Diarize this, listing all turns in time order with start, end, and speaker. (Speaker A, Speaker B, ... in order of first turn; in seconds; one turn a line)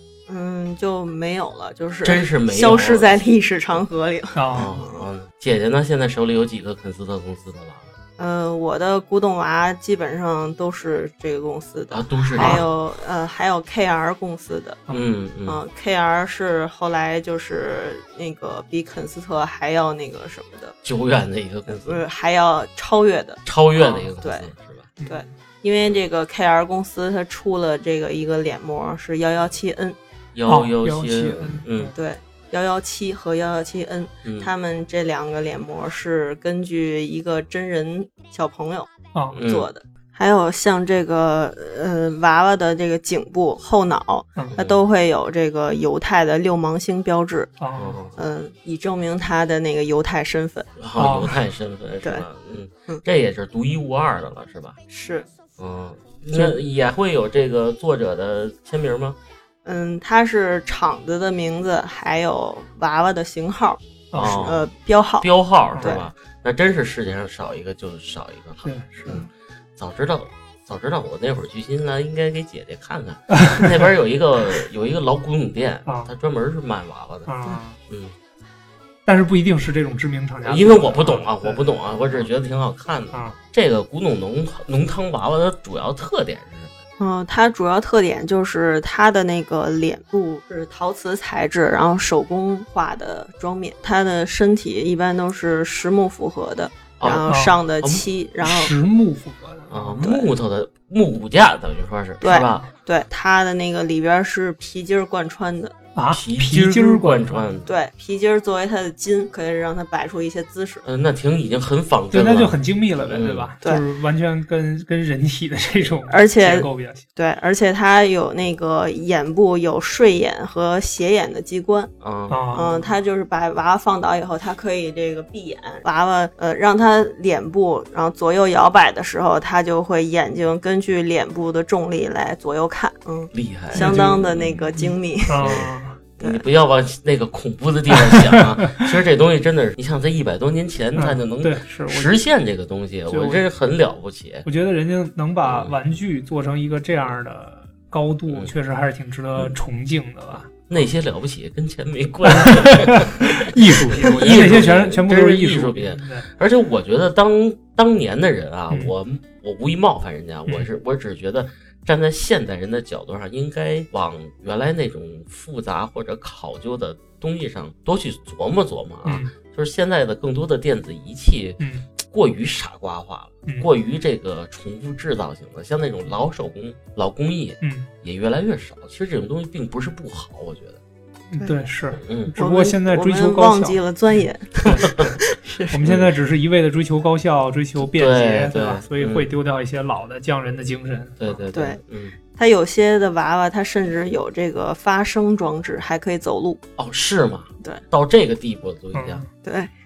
Speaker A: 0.3-5.1
Speaker B: 2.0-3.1
Speaker C: 4.4-4.8
Speaker B: 4.5-8.0
Speaker A: 8.2-14.8
Speaker B: 11.9-12.7
Speaker C: 12.4-12.6
Speaker B: 14.9-15.6
Speaker A: 15.5-20.8
Speaker B: 20.8-22.0
Speaker A: 21.9-23.4
Speaker B: 23.4-24.9
Speaker A: 24.2-24.5
Speaker C: 25.0-25.3
Speaker A: 25.0-30.0
Speaker B: 30.3-31.9
Speaker C: 30.5-31.9
Speaker A: 31.9-47.5
Speaker B: 34.2-34.5
Speaker C: 39.1-39.4
Speaker B: 39.3-39.7
Speaker B: 44.5-44.8
Speaker C: 47.6-48.0
Speaker B: 47.8-48.2
Speaker A: 48.1-50.7
Speaker B: 50.8-54.8
Speaker C: 51.0-51.4
Speaker A: 54.9-55.3
Speaker B: 55.6-59.2
Speaker A: 59.6-66.0
Speaker C: 64.1-64.5
Speaker B: 64.1-64.7
Speaker B: 65.2-77.3
Speaker C: 68.6-69.2
Speaker C: 73.4-73.7
Speaker C: 77.3-77.8
Speaker B: 77.9-78.2
Speaker C: 79.1-82.3
Speaker B: 80.4-86.7
Speaker A: 87.0-98.7
Speaker B: 97.0-97.2
Speaker C: 97.3-97.6
Speaker C: 98.4-100.1
Speaker B: 99.7-102.7
Speaker A: 102.2-105.8
Speaker C: 106.0-107.6
Speaker B: 106.1-107.7
Speaker A: 107.7-110.8
Speaker B: 110.8-113.5
Speaker C: 112.1-117.0
Speaker A: 116.1-121.9
Speaker B: 122.0-122.8
Speaker C: 122.3-122.8
Speaker A: 122.5-135.6
Speaker B: 133.3-144.5
Speaker C: 133.7-134.3
Speaker C: 135.3-136.0
Speaker C: 137.9-138.9
Speaker C: 141.0-142.1
Speaker C: 143.1-143.4
Speaker C: 144.4-150.5
Speaker B: 145.4-145.8
Speaker B: 150.5-180.8
Speaker C: 152.3-156.3
Speaker C: 169.1-169.3
Speaker C: 171.6-171.9
Speaker C: 177.6-177.9
Speaker C: 181.3-183.8
Speaker B: 182.0-182.3
Speaker A: 182.4-185.8
Speaker C: 185.7-191.3
Speaker B: 185.8-186.1
Speaker B: 187.8-189.3
Speaker B: 191.2-192.2
Speaker A: 191.5-191.8
Speaker A: 192.3-196.6
Speaker B: 196.8-199.2
Speaker C: 198.9-199.3
Speaker A: 199.4-199.7